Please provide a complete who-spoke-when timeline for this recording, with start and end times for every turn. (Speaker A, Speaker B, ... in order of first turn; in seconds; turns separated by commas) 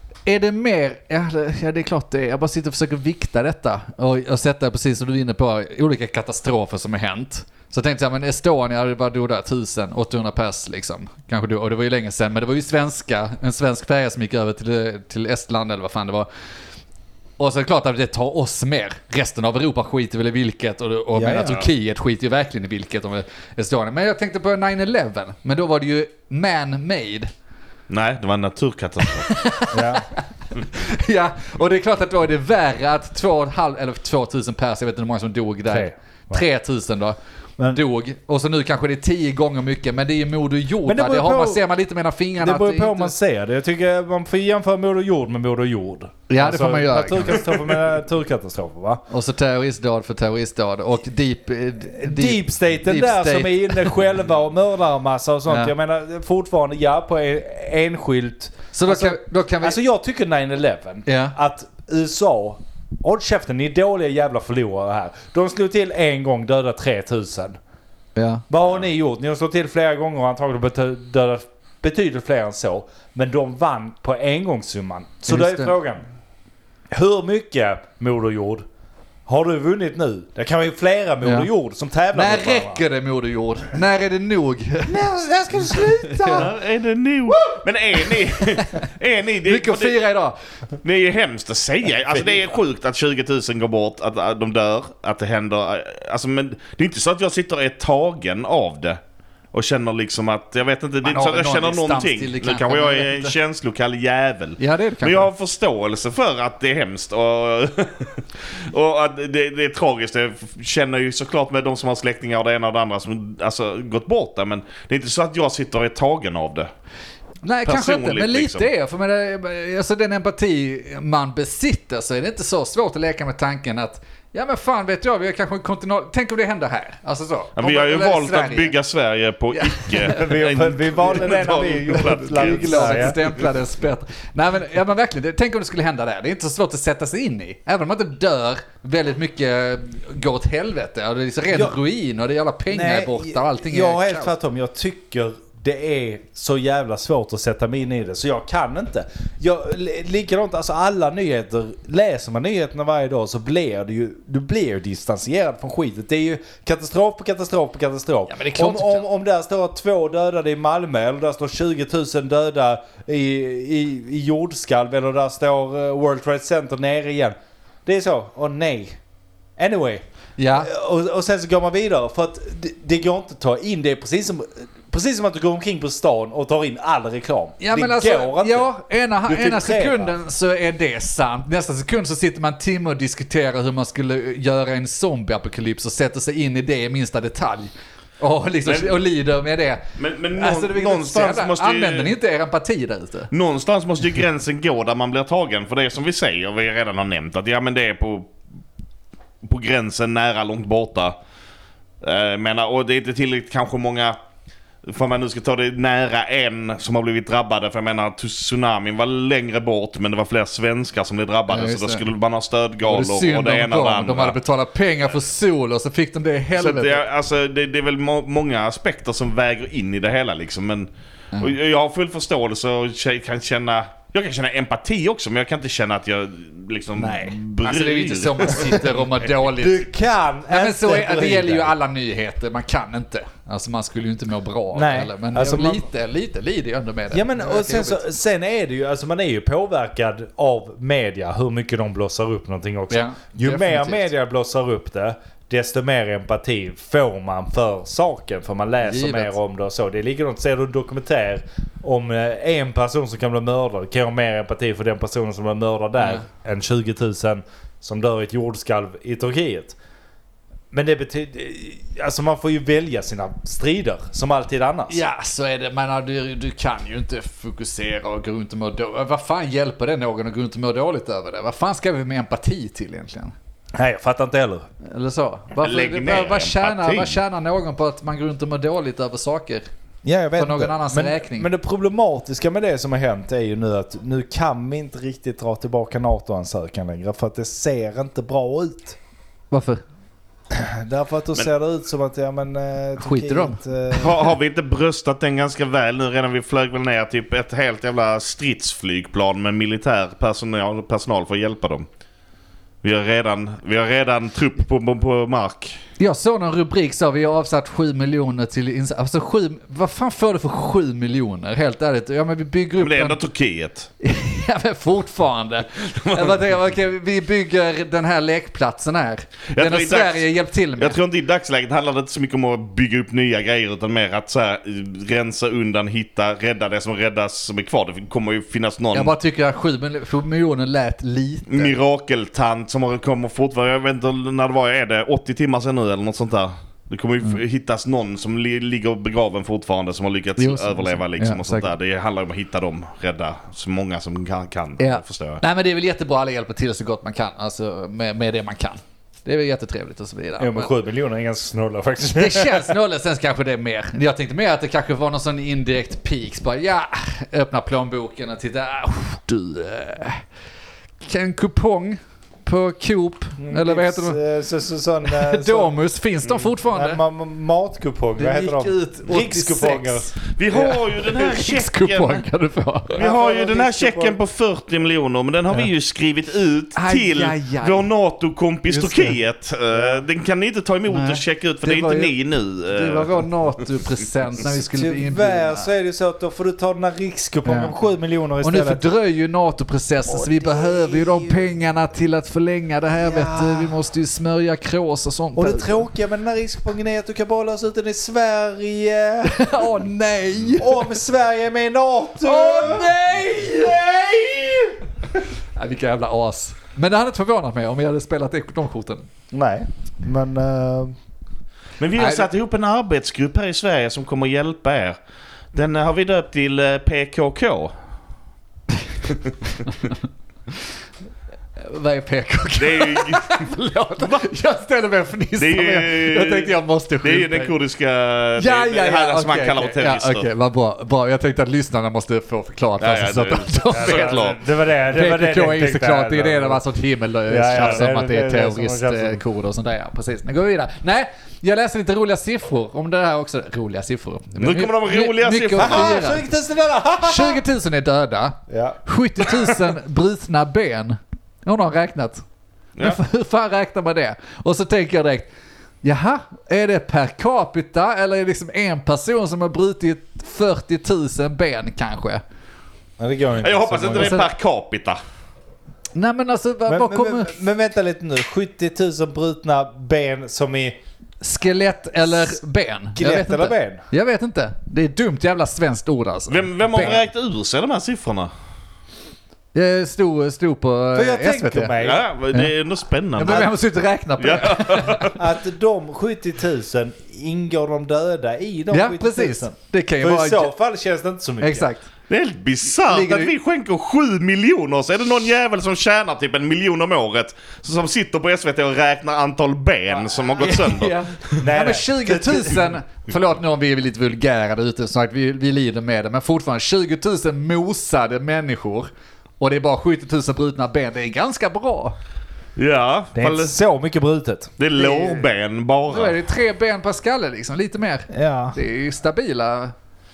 Speaker A: 0.3-16.3, Speaker A: 17.4-27.3, Speaker B: 21.1-21.6, Speaker C: 21.4-21.7, Speaker C: 27.9-29.3, Speaker A: 29.0-37.2, Speaker B: 29.7-30.1, Speaker B: 35.7-36.4, Speaker A: 37.7-43.1, Speaker B: 40.9-41.6, Speaker B: 42.4-49.0, Speaker A: 46.3-47.5, Speaker A: 49.1-54.0, Speaker B: 51.9-67.6, Speaker A: 55.5-55.7, Speaker A: 58.7-59.8, Speaker A: 61.1-61.4, Speaker A: 68.2-68.5, Speaker B: 68.5-76.0, Speaker A: 75.3-75.7, Speaker B: 76.9-78.7, Speaker B: 79.3-82.8, Speaker A: 81.2-81.5, Speaker A: 82.1-85.0, Speaker B: 84.9-86.5, Speaker A: 85.8-86.5, Speaker C: 86.3-90.0, Speaker A: 88.4-88.8, Speaker A: 89.5-90.4, Speaker C: 90.8-99.0, Speaker B: 92.1-92.5, Speaker C: 99.5-116.7, Speaker A: 101.0-103.3, Speaker A: 104.6-105.3, Speaker A: 117.4-128.7, Speaker C: 117.7-118.7, Speaker C: 127.6-133.2, Speaker A: 129.6-130.3, Speaker B: 130.1-133.2, Speaker A: 132.1-144.3, Speaker B: 142.7-169.0, Speaker A: 158.3-159.1, Speaker B: 169.6-170.0, Speaker A: 170.4-170.7, Speaker B: 170.6-178.7, Speaker A: 177.6-189.8, Speaker B: 179.3-180.1, Speaker C: 188.7-189.0, Speaker C: 190.0-192.1, Speaker A: 190.3-193.3, Speaker C: 193.3-198.3, Speaker C: 199.4-201.2, Speaker C: 202.0-204.2, Speaker C: 204.8-214.4, Speaker A: 211.5-212.1, Speaker A: 212.9-217.0, Speaker C: 216.6-228.9, Speaker B: 227.0-227.4, Speaker A: 227.6-229.8, Speaker B: 229.4-231.7, Speaker A: 230.5-238.0, Speaker B: 234.7-235.8, Speaker B: 237.1-259.8, Speaker A: 242.9-244.1, Speaker A: 248.8-249.4, Speaker B: 260.7-265.0, Speaker A: 264.9-273.3, Speaker B: 273.8-274.7, Speaker A: 274.8-279.7, Speaker C: 275.6-277.2, Speaker B: 280.1-289.0, Speaker A: 280.4-281.5, Speaker A: 289.5-289.8, Speaker B: 290.5-294.3, Speaker A: 293.0-293.6, Speaker C: 293.9-301.9, Speaker C: 302.8-305.8, Speaker A: 306.0-313.2, Speaker C: 312.8-313.9, Speaker A: 314.0-321.0, Speaker C: 316.0-316.4, Speaker C: 319.5-320.2, Speaker C: 320.8-329.1, Speaker A: 328.9-331.8, Speaker C: 331.5-345.4, Speaker A: 340.4-341.7, Speaker A: 344.8-350.7, Speaker B: 350.4-352.7, Speaker A: 352.0-360.2, Speaker A: 361.0-364.2, Speaker B: 363.4-365.7, Speaker A: 365.1-367.0, Speaker B: 366.7-370.1, Speaker A: 368.2-373.0, Speaker C: 370.3-372.2, Speaker C: 372.9-383.6, Speaker B: 373.0-374.2, Speaker A: 376.8-377.9, Speaker A: 378.7-379.2, Speaker A: 380.9-382.1, Speaker A: 382.7-385.7, Speaker B: 384.7-388.9, Speaker A: 387.5-387.7, Speaker A: 388.4-395.9, Speaker B: 390.1-391.4, Speaker B: 393.0-393.7, Speaker B: 395.4-399.7, Speaker A: 399.2-400.9, Speaker B: 400.6-402.9, Speaker A: 402.2-403.9, Speaker B: 403.6-404.7, Speaker A: 405.6-409.1, Speaker B: 409.3-411.0, Speaker C: 411.8-415.0, Speaker A: 411.9-412.3, Speaker C: 415.5-417.7, Speaker A: 419.6-420.0, Speaker A: 421.6-427.5, Speaker C: 422.6-423.5, Speaker C: 424.0-424.3, Speaker C: 425.4-430.3, Speaker A: 428.4-434.2, Speaker C: 432.8-434.4, Speaker B: 433.7-436.6, Speaker A: 434.9-446.3, Speaker B: 437.3-439.2, Speaker C: 444.4-446.1, Speaker B: 445.6-447.4, Speaker A: 447.0-452.2, Speaker B: 448.5-449.3, Speaker A: 452.8-455.3, Speaker A: 455.8-462.2, Speaker B: 463.0-464.2, Speaker C: 463.4-465.0, Speaker A: 463.9-464.3, Speaker A: 465.9-467.4, Speaker B: 466.7-470.8, Speaker A: 471.2-477.0, Speaker B: 472.1-472.4, Speaker B: 473.0-473.8, Speaker C: 476.3-478.3, Speaker A: 479.5-481.8, Speaker B: 480.9-482.0, Speaker C: 481.8-483.5, Speaker A: 483.2-485.1, Speaker C: 484.2-485.2, Speaker B: 485.1-491.7, Speaker A: 488.7-490.5, Speaker A: 491.4-491.9, Speaker C: 492.1-501.4, Speaker A: 492.8-493.3, Speaker A: 500.4-512.0, Speaker B: 501.4-502.7, Speaker C: 512.6-513.6, Speaker B: 513.1-515.1, Speaker C: 514.6-516.2, Speaker A: 515.9-519.7, Speaker B: 518.1-518.6